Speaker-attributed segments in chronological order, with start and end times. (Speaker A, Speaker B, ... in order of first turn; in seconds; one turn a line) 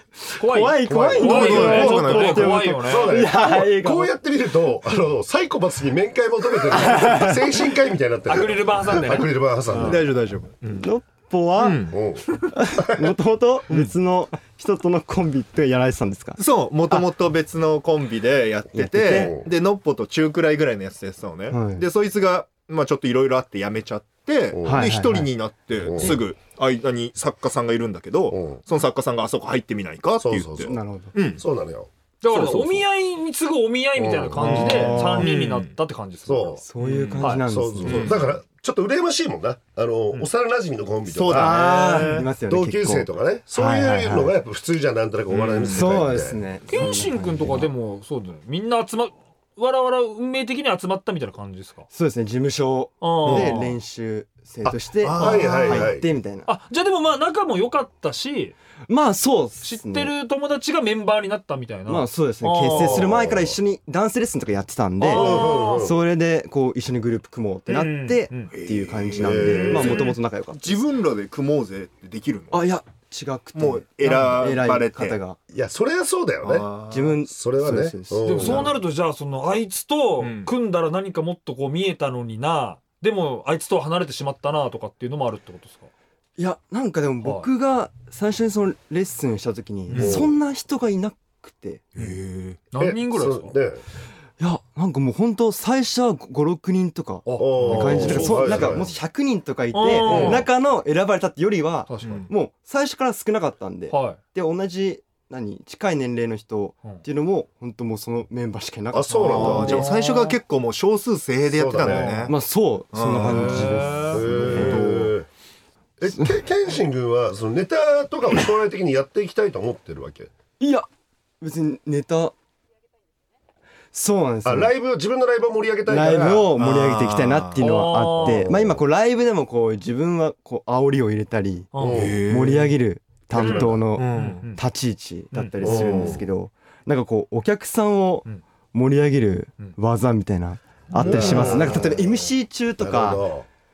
Speaker A: 0.3-4.1
Speaker B: 0.4-3.3
Speaker C: 0.7-10.1
Speaker D: 1.2-2.8
Speaker A: 6.7-7.4
Speaker B: 8.3-10.0
Speaker D: 9.7-10.9
Speaker A: 10.7-11.9
Speaker D: 11.6-12.0
Speaker C: 11.9-13.1
Speaker A: 12.4-17.1
Speaker D: 16.4-31.4
Speaker A: 18.7-19.3
Speaker C: 19.0-19.5
Speaker A: 21.5-21.9
Speaker C: 24.5-24.9
Speaker A: 24.6-25.3
Speaker C: 25.8-26.2
Speaker C: 28.3-28.6
Speaker C: 30.2-31.9
Speaker A: 30.6-31.1
Speaker B: 32.2-36.6
Speaker D: 32.3-32.9
Speaker C: 34.0-35.1
Speaker A: 34.4-35.3
Speaker D: 34.4-35.8
Speaker C: 36.2-36.6
Speaker A: 36.6-38.1
Speaker D: 36.8-38.4
Speaker B: 37.2-38.0
Speaker C: 37.4-41.8
Speaker D: 41.1-42.3
Speaker A: 41.3-44.4
Speaker C: 42.4-46.4
Speaker D: 45.3-46.0
Speaker A: 45.7-47.7
Speaker B: 46.7-51.9
Speaker A: 51.9-56.5
Speaker B: 53.0-53.7
Speaker D: 53.2-53.6
Speaker D: 54.7-55.9
Speaker C: 55.1-56.0
Speaker B: 55.2-55.7
Speaker B: 56.5-58.5
Speaker A: 58.9-60.1
Speaker B: 59.6-63.1
Speaker A: 61.9-70.8
Speaker C: 62.7-63.6
Speaker B: 65.0-65.9
Speaker C: 65.1-66.0
Speaker B: 67.7-68.5
Speaker D: 68.5-72.7
Speaker C: 69.2-70.1
Speaker A: 72.5-75.4
Speaker D: 73.5-75.2
Speaker C: 75.5-78.8
Speaker D: 76.4-77.2
Speaker A: 76.9-78.7
Speaker B: 78.2-85.9
Speaker D: 80.2-80.5
Speaker A: 86.4-91.8
Speaker B: 87.2-87.5
Speaker D: 89.9-90.3
Speaker C: 90.0-90.3
Speaker D: 92.0-92.7
Speaker B: 92.7-93.5
Speaker C: 92.8-93.8
Speaker A: 94.4-109.9
Speaker B: 97.3-98.7
Speaker C: 97.4-98.9
Speaker D: 97.8-98.3
Speaker B: 99.7-100.5
Speaker C: 100.0-100.4
Speaker B: 101.9-102.3
Speaker D: 102.0-102.3
Speaker B: 103.9-104.2
Speaker C: 108.9-109.9
Speaker D: 109.2-112.4
Speaker B: 109.7-110.4
Speaker C: 111.5-112.3
Speaker B: 111.9-112.1
Speaker A: 112.3-114.8
Speaker D: 112.9-115.1
Speaker B: 113.2-114.5
Speaker C: 114.1-115.3
Speaker C: 116.0-120.3
Speaker A: 120.6-120.9
Speaker A: 121.4-122.3
Speaker A: 123.9-124.7
Speaker C: 124.5-126.5
Speaker A: 125.9-143.2
Speaker D: 126.5-128.5
Speaker B: 127.6-128.5
Speaker B: 131.7-132.1
Speaker C: 131.8-132.3
Speaker D: 131.8-132.8
Speaker D: 133.3-134.5
Speaker C: 133.4-133.8
Speaker B: 134.1-134.6
Speaker B: 135.3-135.6
Speaker C: 135.6-136.2
Speaker D: 135.6-136.2
Speaker B: 141.0-141.6
Speaker C: 141.0-143.5
Speaker D: 141.0-141.8